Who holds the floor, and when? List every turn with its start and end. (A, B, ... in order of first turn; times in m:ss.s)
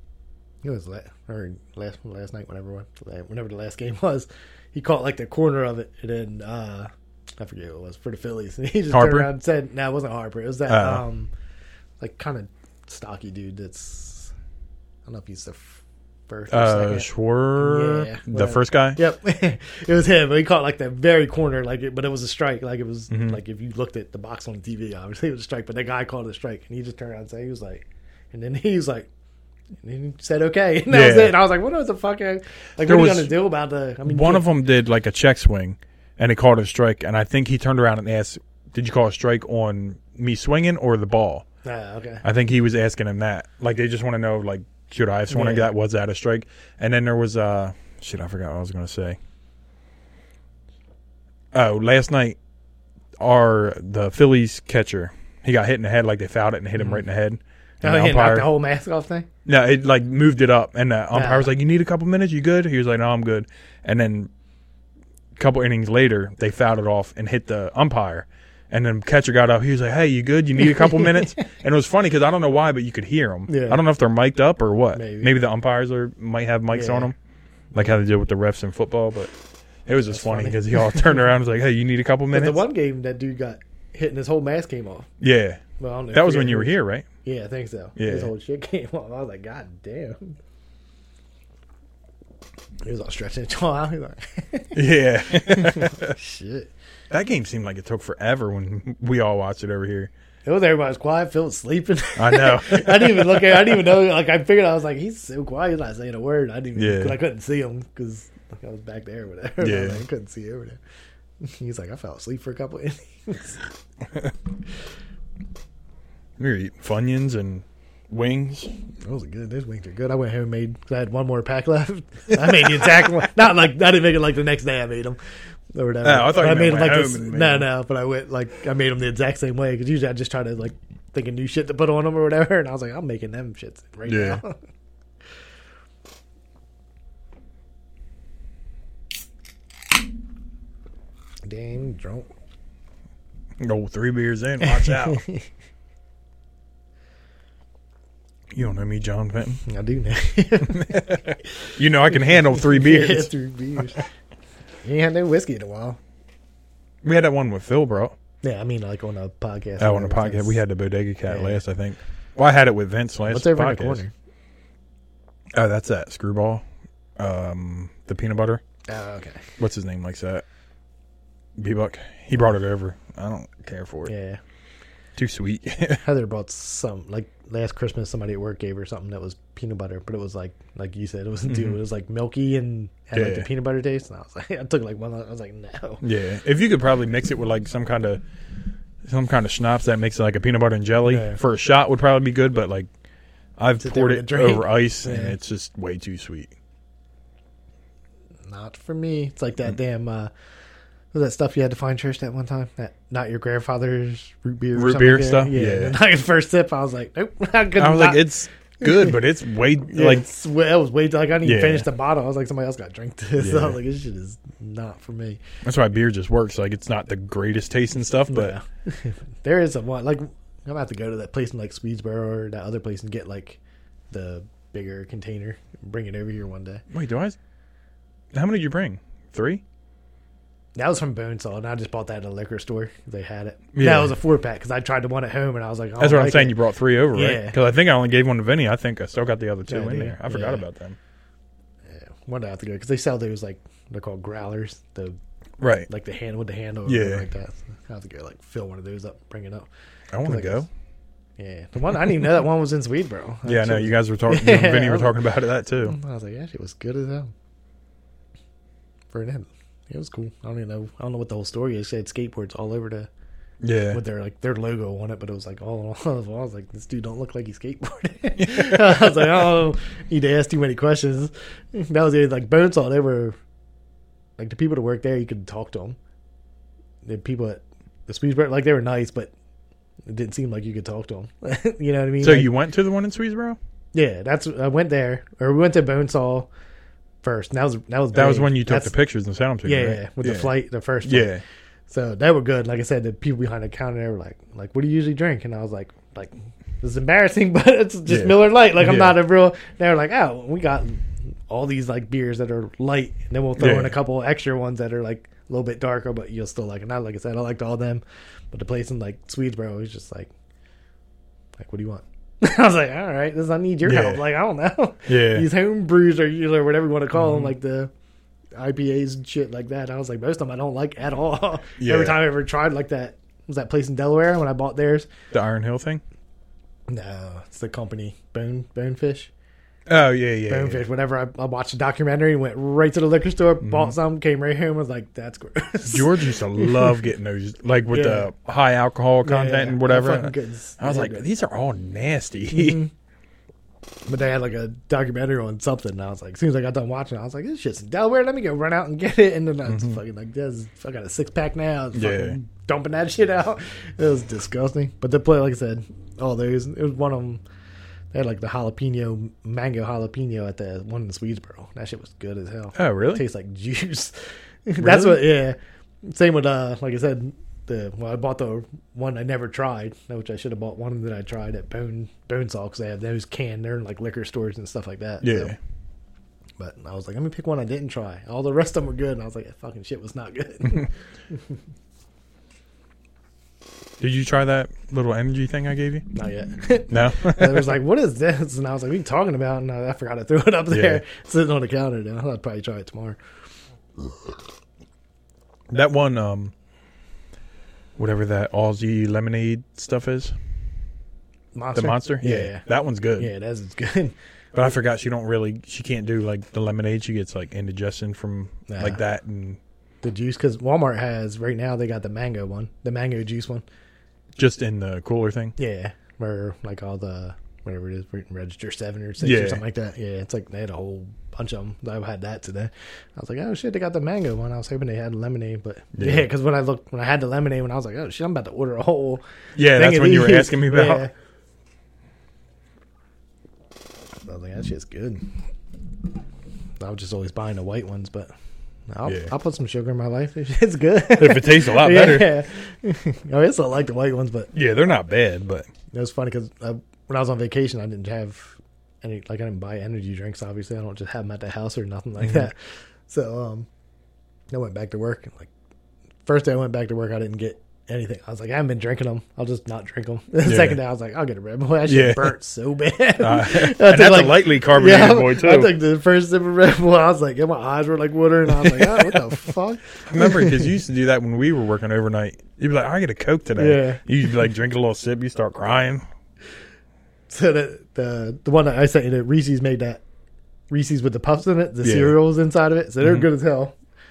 0:00.6-0:11.3 A
0:08.9-0:09.3 B
0:10.7-0:11.0 B
0:12.0-0:14.3 A
0:15.0-0:29.1 A
0:16.5-0:19.0 B
0:23.1-0:23.4 B
0:29.8-0:34.5 A
0:30.9-0:31.4 B
0:32.8-0:33.3 B
0:34.0-0:41.4 B
0:41.6-0:42.2 A
0:42.2-0:49.2 B
0:45.3-0:45.7 A
0:51.5-0:52.4 B
0:53.2-0:58.5 B
0:56.8-0:57.0 A
0:57.8-0:59.3 A
0:59.4-1:04.3 B
1:01.1-1:01.5 A
1:05.4-1:17.1 B
1:10.6-1:11.5 A
1:13.5-1:13.8 A
1:14.9-1:15.3 A
1:16.7-1:17.1 A
1:17.7-1:19.3 B
1:19.8-1:22.6 B
1:20.1-1:21.2 A
1:22.3-1:25.1 A
1:25.2-1:27.0 B
1:25.8-1:30.4 A
1:28.0-1:28.3 B
1:32.8-1:36.7 A
1:34.7-1:36.1 B
1:37.1-1:40.1 B
1:40.4-1:50.8 A
1:42.2-1:43.8 B
1:46.8-1:47.2 B
1:49.6-1:50.0 B
1:51.4-1:53.7 A
1:56.4-1:58.7 B
1:59.0-2:05.2 A
2:02.4-2:02.9 B
2:05.7-2:14.6 A
2:06.0-2:07.7 B
2:14.1-2:14.4 B
2:21.4-2:22.3 A
2:23.6-2:25.2 B
2:24.6-2:25.4 A
2:28.5-2:29.6 B
2:29.6-2:34.0 A
2:30.7-2:33.3 B
2:34.8-2:36.0 A
2:37.0-2:38.2 B
2:38.4-2:40.6 A
2:39.8-2:44.0 B
2:41.3-2:41.6 A
2:43.3-2:44.1 A
2:45.5-2:46.6 B
2:47.2-2:48.6 B
2:48.9-2:49.5 A
2:49.6-2:50.4 B
2:51.6-2:54.1 B
2:54.0-2:54.4 A
2:55.2-2:56.0 B
2:56.0-3:06.0 A
3:01.5-3:01.8 B
3:03.1-3:03.5 B
3:06.0-3:08.2 B
3:09.0-3:12.9 B
3:11.0-3:11.4 A
3:13.6-3:16.5 B
3:13.8-3:15.4 A
3:18.5-3:20.3 A
3:21.1-3:29.2 A
3:24.7-3:26.0 B
3:27.8-3:30.3 B
3:29.8-3:35.4 A
3:31.4-3:31.8 B
3:33.4-3:33.8 B
3:35.6-3:38.6 B
3:38.3-3:43.6 A
3:44.1-3:46.8 A
3:46.9-3:47.4 B
3:48.3-3:49.6 B
3:50.7-3:56.6 A
3:53.7-3:54.2 B
3:56.0-4:01.0 B
3:57.1-3:57.6 A
3:59.7-4:00.6 A
4:01.9-4:05.2 A
4:05.6-4:05.9 B
4:05.9-4:09.7 A
4:06.8-4:07.3 B
4:10.1-4:10.7 B
4:10.2-4:10.7 A
4:11.4-4:15.2 A
4:13.4-4:16.0 B
4:15.8-4:17.3 A
4:19.1-4:23.1 A
4:23.6-4:24.0 B
4:23.9-4:33.4 A
4:28.4-4:29.4 B
4:34.4-4:36.0 A
4:37.0-4:39.3 A
4:40.1-4:42.6 A
4:42.2-4:43.6 B
4:43.9-4:46.5 A
4:47.2-4:48.9 A
4:48.1-4:50.5 B
4:49.6-4:51.3 A
4:51.0-4:51.4 B
4:51.9-5:10.3 A
4:58.1-4:59.2 B
5:03.6-5:03.9 B
5:11.6-5:17.9 A
5:13.8-5:14.2 B
5:15.1-5:15.5 B
5:17.1-5:17.5 B
5:18.6-5:25.1 A
5:21.8-5:22.2 B
5:25.3-5:26.0 B
5:26.9-5:29.3 A
5:29.9-5:30.8 B
5:30.5-5:37.0 A
5:33.6-5:34.0 B
5:35.9-5:42.8 B
5:37.9-5:38.3 A
5:39.2-5:41.2 A
5:42.5-5:42.9 A
5:44.1-5:57.4 A
5:49.6-5:50.0 B
5:51.9-5:52.4 B
5:58.1-6:15.5 A
6:02.8-6:03.2 B
6:04.8-6:05.2 B
6:15.2-6:15.6 B
6:16.6-6:21.6 A
6:24.0-6:26.0 B
6:26.1-6:33.2 A
6:26.9-6:27.8 B
6:30.7-6:31.0 B
6:35.7-6:36.5 B
6:38.0-6:40.4 B
6:41.5-6:42.6 A
6:41.7-6:43.3 B
6:43.2-6:44.1 A
6:44.5-6:49.6 B
6:48.7-6:49.0 A
6:50.0-6:53.6 A
6:54.4-6:55.5 B
6:55.6-7:11.1 A
6:59.2-6:59.6 B
7:06.0-7:06.3 B
7:09.6-7:11.1 B
7:14.3-7:15.2 A
7:16.8-7:18.3 A
7:18.9-7:24.5 A
7:19.0-7:19.3 B
7:21.2-7:22.3 B
7:24.5-7:25.7 B
7:25.9-7:33.7 A
7:32.2-7:32.5 B
7:34.5-7:35.5 A
7:36.2-7:50.7 A
7:40.4-7:40.8 B
7:41.9-7:42.3 B
7:43.2-7:45.7 B
7:48.5-7:49.4 B
7:50.0-7:56.0 B
7:53.6-7:54.0 A
7:57.3-8:00.0 A
8:00.7-8:03.8 A
8:01.8-8:02.2 B
8:03.0-8:03.3 B